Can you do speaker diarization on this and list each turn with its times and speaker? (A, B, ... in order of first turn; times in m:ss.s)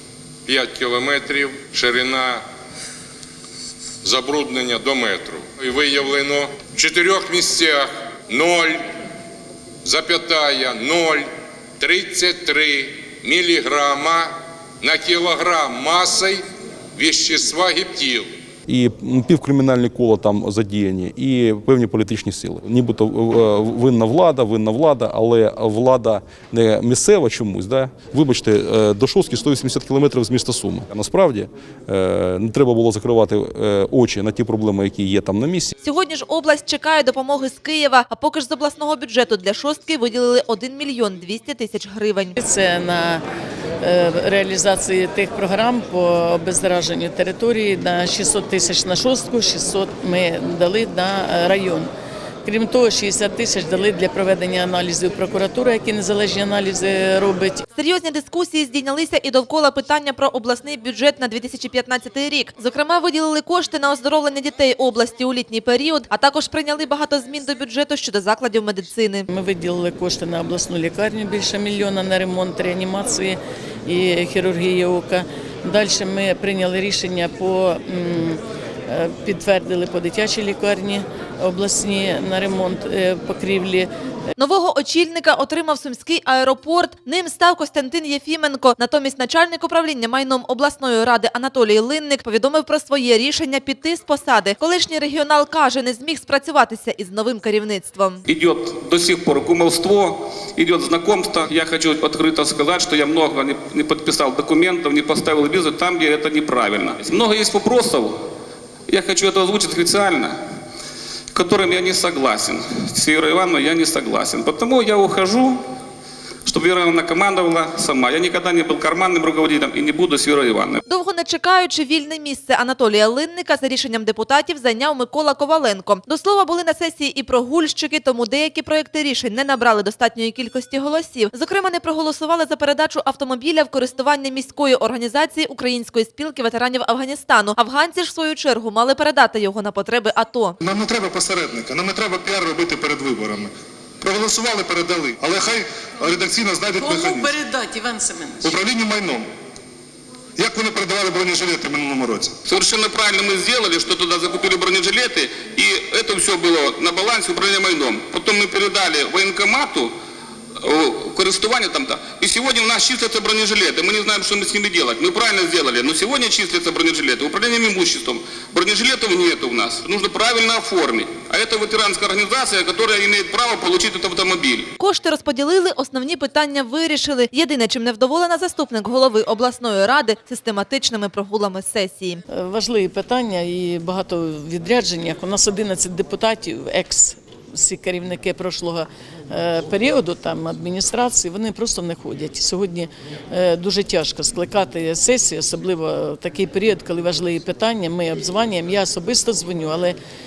0:00.5-0:02.4 A
0:04.0-0:08.8 A
0:09.8-0:11.3 A
0:11.8-0:16.4 A
0:17.0-0:18.3 A
0:18.7-0:35.8 B
0:35.8-0:42.4 C
0:42.4-0:43.2 D
0:43.8-0:51.9 D
0:52.4-0:57.6 D
0:57.8-1:09.3 C
1:09.3-1:23.9 D
1:24.4-1:38.2 C
1:38.3-1:48.2 E
1:48.9-1:50.4 E
1:51.3-1:55.6 E
1:56.4-2:00.8 E
2:00.9-2:20.6 C
2:20.6-2:27.4 F
2:26.8-2:28.5 D
2:28.4-2:29.3 F
2:30.4-2:32.3 F
2:32.5-2:39.9 E
2:40.6-2:54.7 E
2:54.8-3:02.2 C
3:02.3-3:20.0 D